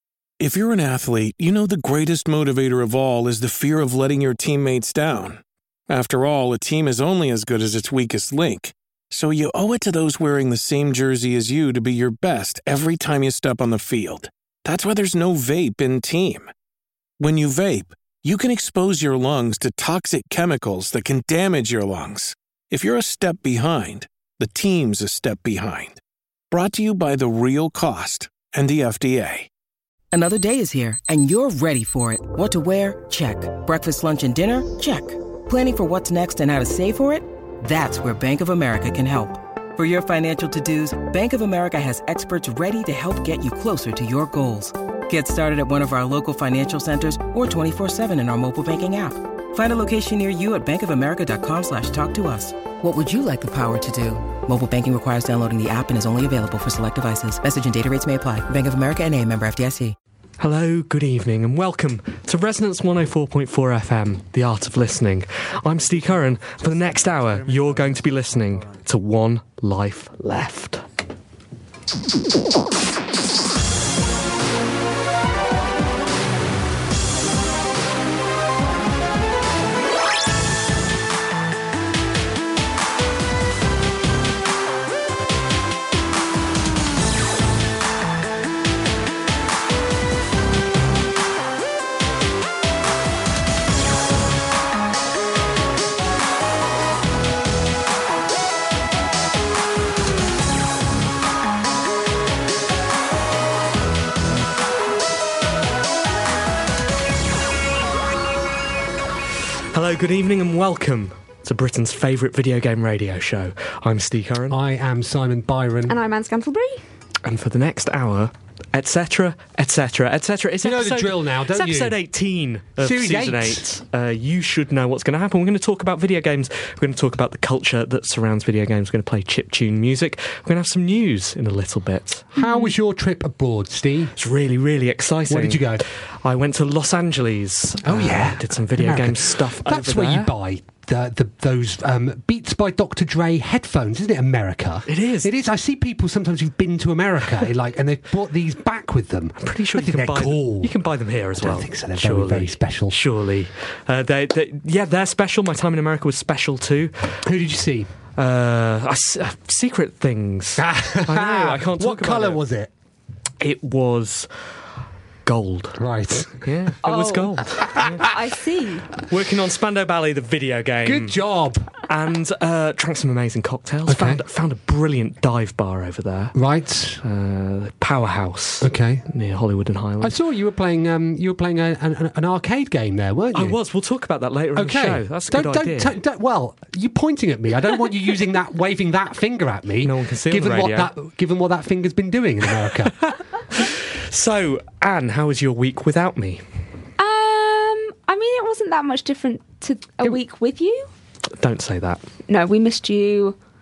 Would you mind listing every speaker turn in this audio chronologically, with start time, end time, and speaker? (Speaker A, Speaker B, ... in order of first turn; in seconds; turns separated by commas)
Speaker A: 0.4-16.5, Speaker A: 17.2-26.0, Speaker A: 26.5-29.5, Speaker B: 30.1-59.9, Speaker C: 60.4-70.8, Speaker C: 109.7-114.6, Speaker D: 114.5-116.0, Speaker E: 115.9-116.8, Speaker C: 117.2-132.3, Speaker D: 120.6-122.0, Speaker D: 122.8-123.6, Speaker D: 132.3-134.1, Speaker E: 132.3-132.7, Speaker C: 134.2-140.3, Speaker D: 135.3-135.8, Speaker D: 137.8-150.7, Speaker C: 144.9-145.3, Speaker C: 149.4-157.2, Speaker D: 151.4-153.0, Speaker D: 157.2-157.9, Speaker C: 158.2-162.4, Speaker D: 160.6-162.7, Speaker C: 163.4-164.3, Speaker C: 165.2-165.8, Speaker D: 165.8-166.4, Speaker C: 166.4-168.0, Speaker E: 166.8-168.9, Speaker D: 167.7-168.1, Speaker C: 169.0-171.2, Speaker D: 170.8-171.7, Speaker C: 171.8-176.4, Speaker D: 173.9-174.2, Speaker D: 176.3-177.0, Speaker C: 177.0-180.1, Speaker D: 178.6-179.1, Speaker D: 180.0-183.6, Speaker C: 183.3-185.9, Speaker D: 184.6-193.1, Speaker C: 189.8-190.9, Speaker C: 193.5-196.4, Speaker E: 197.0-200.9, Speaker C: 201.4-202.0, Speaker E: 202.3-203.3